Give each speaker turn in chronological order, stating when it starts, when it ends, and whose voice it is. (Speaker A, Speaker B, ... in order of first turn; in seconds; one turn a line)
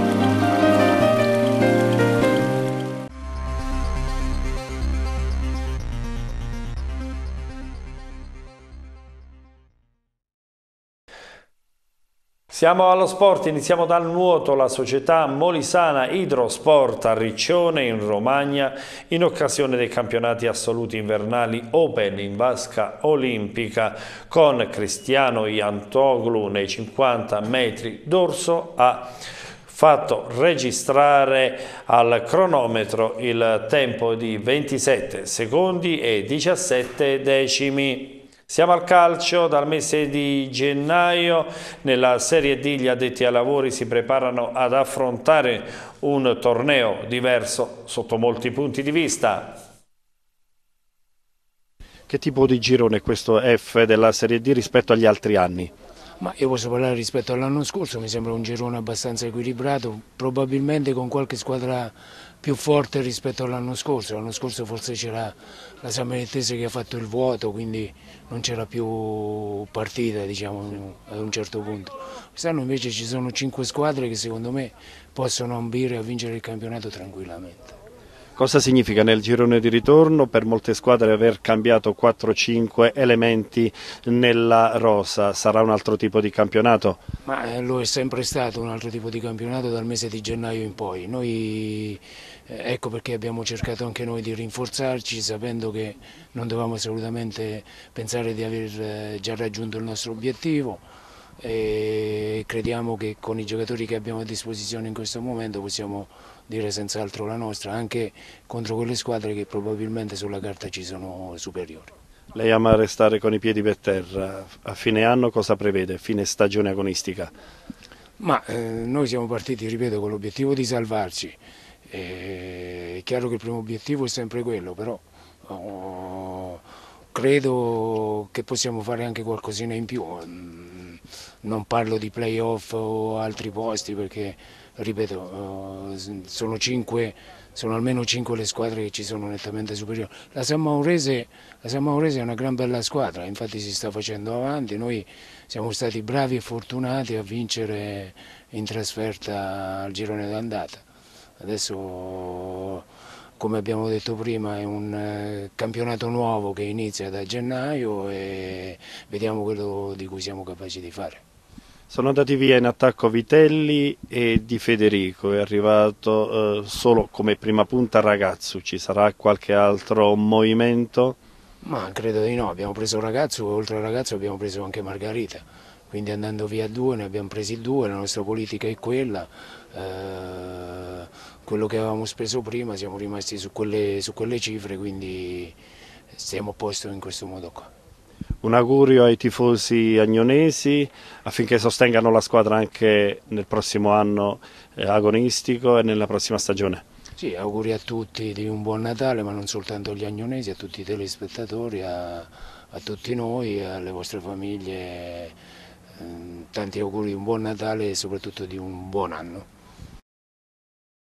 Speaker A: 12.5-29.2
Speaker A: 29.7-49.6
Speaker B: 52.1-55.7
Speaker C: 56.2-77.8
Speaker B: 78.4-87.0
Speaker C: 87.2-100.9
Speaker C: 101.4-111.9
Speaker B: 112.3-117.3
Speaker C: 118.2-150.9
Speaker C: 151.4-152.9
Speaker C: 153.4-161.2
Speaker B: 161.9-171.2
Speaker C: 171.6-185.6
Speaker C: 186.1-187.7
Speaker B: 188.4-196.8
Speaker C: 197.2-205.4
Speaker C: 205.9-209.5